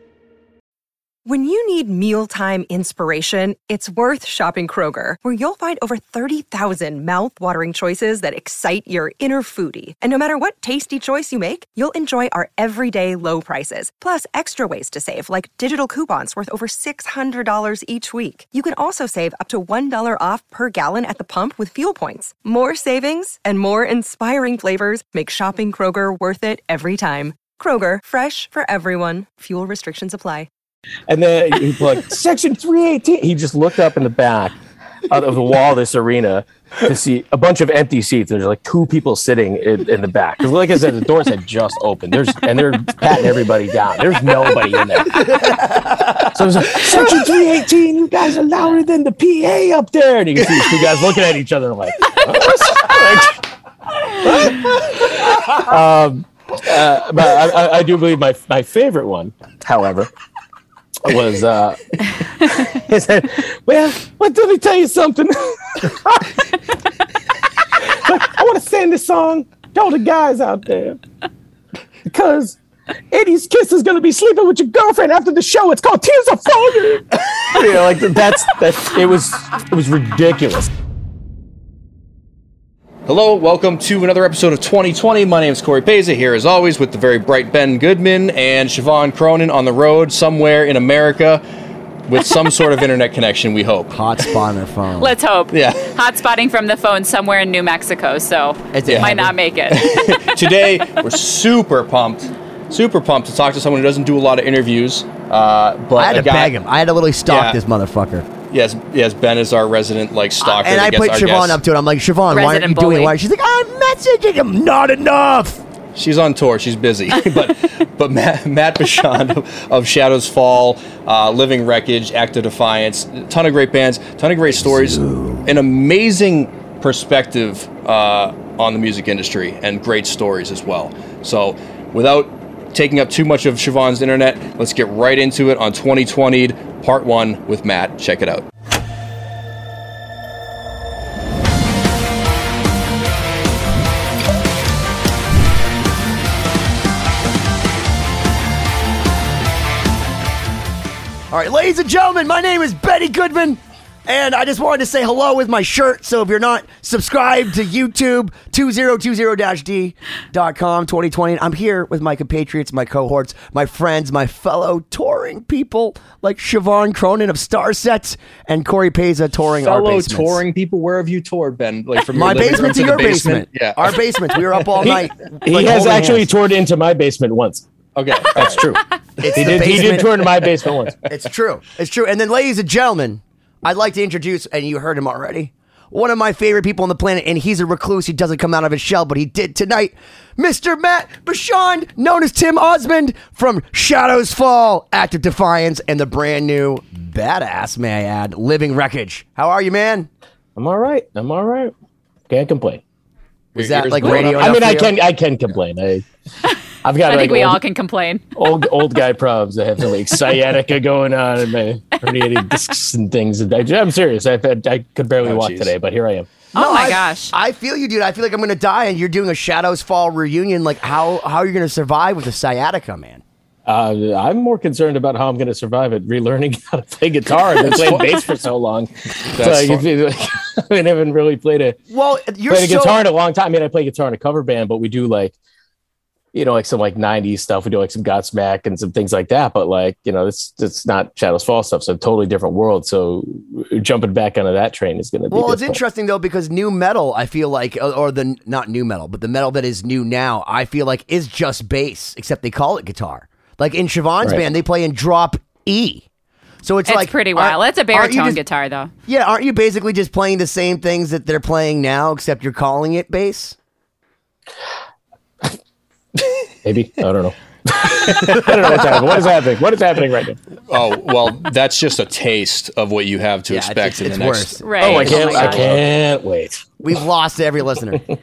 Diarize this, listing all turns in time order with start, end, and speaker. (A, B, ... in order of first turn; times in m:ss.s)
0:01.2-0:30.5 A
0:31.1-0:34.6 B
0:35.1-0:45.4 B
0:45.4-0:46.2 C
0:46.2-0:53.4 B
0:54.1-1:00.1 B
1:01.0-1:06.5 B
1:07.7-1:11.0 B
1:12.0-1:12.6 B
1:13.1-1:20.7 B
1:23.1-1:31.4 D
1:32.1-1:34.4 D
1:33.9-1:35.1 C
1:35.0-1:39.9 E
1:35.5-1:35.9 D
1:38.7-1:39.3 C
1:38.8-1:39.2 D
1:39.7-1:46.5 D
1:46.0-1:48.3 C
1:47.3-1:47.6 D
1:48.5-1:51.6 D
1:50.4-1:55.6 C
1:52.3-1:53.1 E
1:55.9-2:18.4 D
2:04.6-2:05.5 C
2:31.3-2:50.4 C
2:49.4-2:54.9 D
2:52.1-2:56.3 C
2:54.8-2:57.7 B
2:58.0-2:58.6 D
2:58.3-3:01.0 B
2:59.2-3:00.1 C
2:59.2-3:00.1 D
3:01.1-3:20.1 C
3:20.6-3:21.7 B
3:22.3-3:22.8 B
3:23.5-3:24.9 D
3:23.6-3:24.9 C
3:24.0-3:26.0 B
3:26.8-3:27.6 B
3:27.1-3:28.2 E
3:28.3-3:36.3 B
3:35.2-3:35.7 D
3:36.5-3:37.3 E
3:36.5-3:43.2 C
3:43.7-3:51.8 B
3:47.5-3:48.3 D
3:49.3-3:49.8 D
3:51.9-3:53.0 C
3:52.5-3:55.3 B
3:56.3-4:05.8 B
4:05.3-4:16.0 C
4:16.6-4:18.4 C
4:16.9-4:18.9 E
4:19.1-4:23.6 C
4:26.6-4:30.4 B
4:28.1-4:28.9 D
4:30.7-4:35.8 D
4:33.5-4:35.6 C
4:34.6-4:35.6 E
4:34.8-4:36.8 B
4:36.8-4:38.0 C